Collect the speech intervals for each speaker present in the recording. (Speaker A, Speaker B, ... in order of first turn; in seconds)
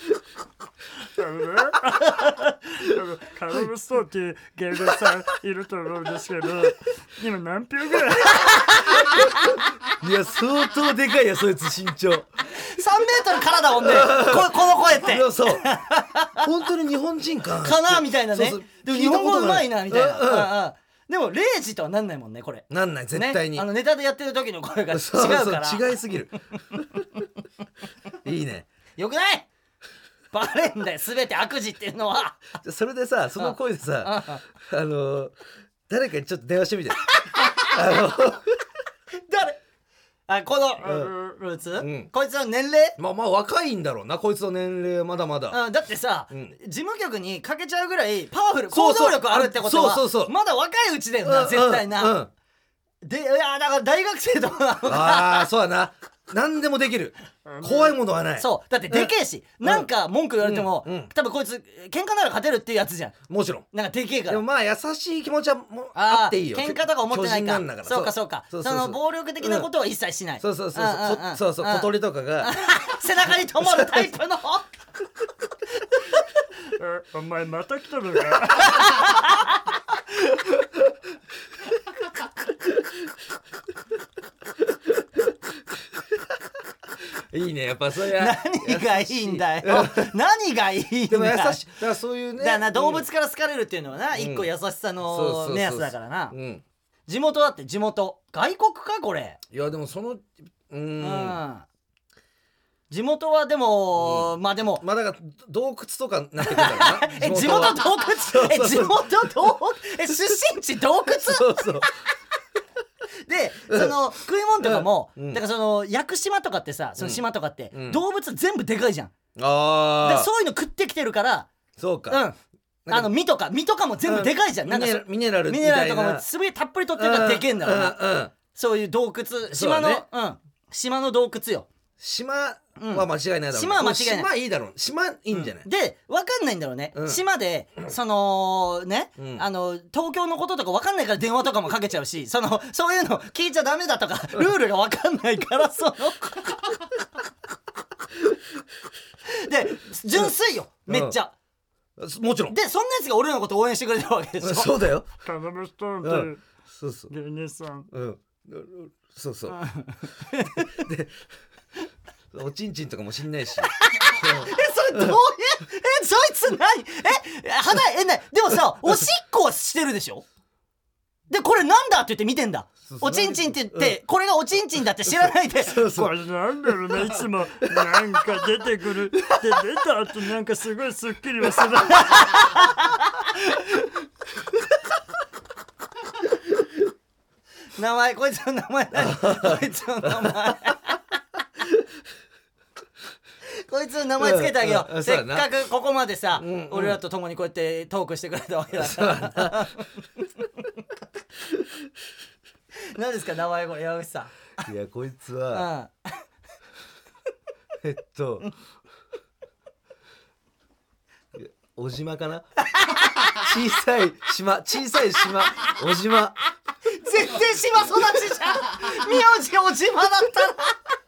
Speaker A: 1.2-9.3, 57.5-58.0, 76.8-79.3, 155.2-156.5, 157.1-157.9, 175.8-182.6
Speaker B: 2.2-2.5, 8.3-9.3, 12.5-16.5, 17.6-25.9, 29.0-29.5, 30.3-32.5, 33.4-34.5, 37.2-37.8, 39.2-39.6, 40.3-43.0, 45.5-52.2, 53.0-55.5, 58.4-63.1, 63.7-64.4, 66.0-74.7, 78.9-79.3, 88.1-91.7, 92.4-96.3, 97.1-99.4, 101.0-101.6, 102.9-104.8, 106.4-111.9, 113.2-119.1, 120.0-121.5, 122.1-122.3, 122.9-128.0, 128.5-131.7, 132.8-134.3, 135.3-146.6, 149.3-151.3, 152.5-154.8, 159.5-160.9, 163.7-170.2, 171.3-175.8, 182.0-183.2, 187.8-191.0, 193.5-200.6, 202.8-204.6, 205.5-206.2, 212.7-213.5, 216.9-220.8
Speaker C: 10.0-12.4, 13.7-15.7, 16.4-20.6, 22.7-23.7, 24.9-27.0, 28.2-28.7, 32.6-35.4, 35.9-38.6, 40.8-41.1, 41.8-42.1, 43.0-45.6, 46.3-46.5, 48.7-50.3, 51.2-52.3, 54.9-59.1, 59.6-59.9, 60.4-61.1, 63.3-63.7, 64.3-69.7, 70.4-72.5, 73.6-73.9, 87.3-90.1, 91.1-93.1, 94.1-94.5, 95.0-96.6, 99.5-101.4, 104.0-109.5, 111.1-111.9, 113.7-114.0, 114.6-115.4, 117.0-118.0, 119.4-120.3, 121.8-122.2, 122.9-123.1, 124.0-126.2, 127.0-128.3, 129.5-130.0, 132.0-135.7, 136.9-137.2, 139.2-139.4, 150.9-151.2, 152.0-152.6, 154.4-155.1, 156.0-157.1, 157.9-159.6, 160.6-161.2, 162.3-165.2, 172.8-174.0, 175.2-176.1, 188.9-190.6, 194.2-195.5, 196.4-197.0, 198.8-199.7, 204.6-205.7, 207.8-208.5, 211.3-212.5, 213.2-216.4